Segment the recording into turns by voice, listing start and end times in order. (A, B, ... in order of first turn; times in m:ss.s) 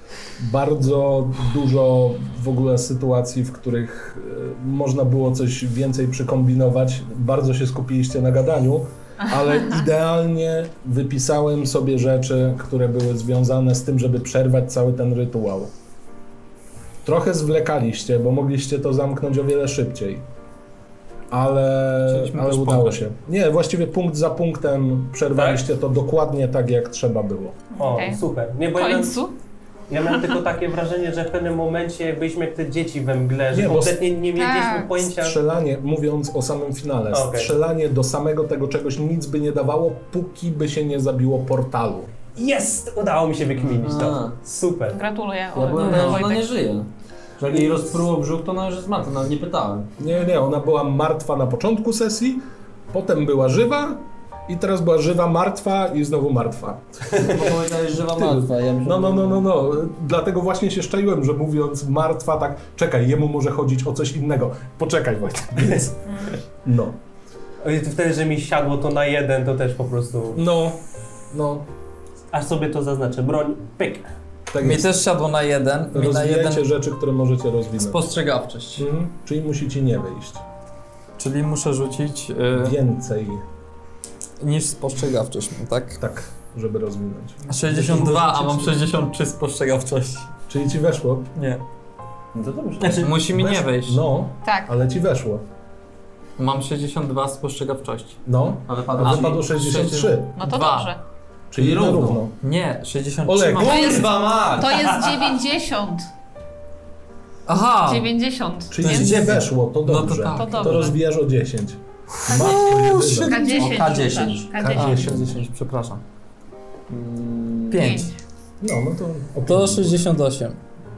0:00.4-0:15.7 A
0:17.0-0:20.2 A
0:21.3-0:27.6 A
0:22.1-0:23.0 B
0:25.3-0:25.6 C
0:27.7-0:28.2 D
0:27.8-0:29.2 C
0:28.7-0:29.4 D
0:29.9-0:35.4 C
0:30.1-0:30.3 D
0:33.5-0:34.0 A
0:34.4-0:34.9 D
0:35.0-0:42.1 A
0:37.1-0:37.5 C
0:42.4-0:45.0 C
0:43.8-0:44.4 E
0:44.9-0:46.5 D
0:45.5-0:49.9 E
0:45.7-0:46.3 B
0:50.0-0:57.2 A
0:57.1-0:59.5 E
0:57.9-1:06.0 A
1:06.0-1:06.4 D
1:06.6-1:07.0 A
1:07.6-1:10.4 C
1:10.3-1:11.7 A
1:12.3-1:14.1 C
1:14.5-1:14.9 A
1:14.6-1:16.7 B
1:15.9-1:18.1 A
1:17.8-1:18.9 B
1:18.8-1:20.4 A
1:21.2-1:22.8 B
1:22.5-1:23.4 A
1:24.4-1:26.0 B
1:26.0-1:28.7 A
1:27.5-1:30.3 B
1:27.7-1:28.4 E
1:30.5-1:31.3 A
1:31.4-1:31.6 B
1:32.3-1:34.0 B
1:32.8-1:33.2 C
1:33.2-1:35.4 A
1:34.4-1:34.7 D
1:36.4-1:38.2 B
1:38.2-1:40.3 A
1:38.7-1:39.4 E
1:39.0-1:40.9 B
1:40.4-1:41.0 D
1:41.5-1:42.4 A
1:41.6-1:42.2 E
1:42.4-1:44.0 B
1:43.3-1:43.6 A
1:43.4-1:45.4 E
1:43.6-1:46.1 D
1:47.5-1:48.1 B
1:47.8-1:49.4 D
1:48.7-1:53.4 A
1:48.8-1:51.0 B
1:50.3-1:50.9 D
1:52.2-1:53.8 B
1:53.2-1:55.1 D
1:53.3-1:55.1 E
1:54.5-1:55.4 A
1:54.7-1:56.0 B
1:56.9-1:57.8 E
1:57.7-1:58.1 B
1:57.7-1:58.2 D
1:58.6-2:00.0 A
1:59.4-2:00.6 B